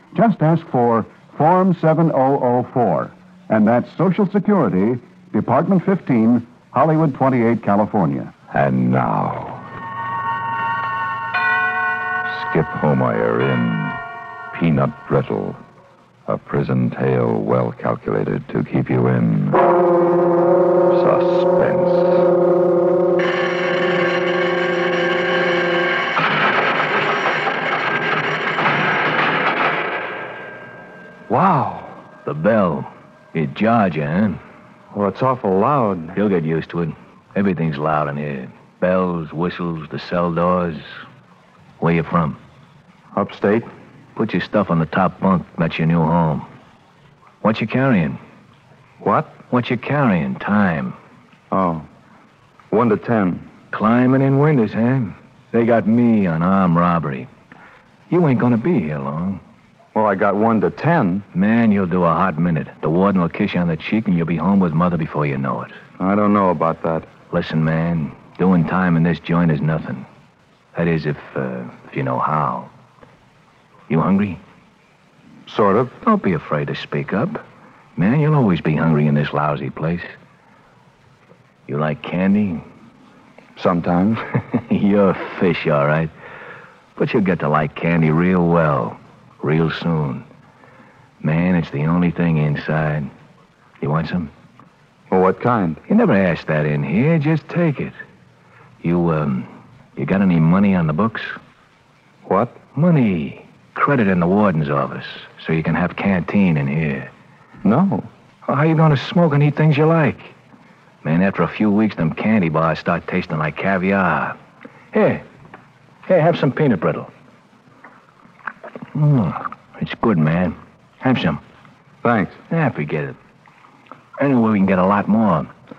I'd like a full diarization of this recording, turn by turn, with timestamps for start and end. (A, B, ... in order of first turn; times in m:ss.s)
0:00.1-0:08.3 A
0:08.5-0:09.7 B
0:12.2-0:14.0 B
0:14.5-0:15.6 B
0:16.3-0:19.7 B
0:20.9-0:22.3 B
0:31.3-0:32.0 C
0:32.2-0:34.4 D
0:34.9-0:36.2 C
0:36.1-0:40.9 D
0:41.8-0:42.4 D
0:43.1-0:43.7 C
0:44.2-0:46.5 D
0:47.4-0:48.2 D
0:49.0-0:49.4 C
0:49.5-0:51.0 D
0:51.5-0:51.9 C
0:52.7-0:53.5 C
0:53.7-0:57.3 D
0:58.1-0:59.4 D
0:59.9-1:01.2 C
1:01.3-1:05.8 D
1:06.0-1:07.1 C
1:07.3-1:10.1 D
1:10.7-1:12.7 D
1:13.9-1:14.4 D
1:15.5-1:16.0 C
1:16.0-1:17.4 D
1:18.0-1:20.2 D
1:21.7-1:22.7 D
1:23.6-1:24.2 C
1:24.5-1:26.1 D
1:27.0-1:30.3 D
1:31.2-1:33.1 D
1:33.8-1:34.3 D
1:35.1-1:35.8 C
1:35.9-1:37.9 D
1:38.8-1:41.4 D
1:42.2-1:42.6 C
1:42.8-1:47.1 D
1:47.6-1:48.1 C
1:48.5-1:50.3 D
1:51.0-1:54.4 D
1:54.9-1:55.2 D
1:56.1-1:57.1 D
1:58.9-2:01.4 D
2:02.0-2:02.4 C
2:02.5-2:03.2 D
2:04.2-2:05.5 D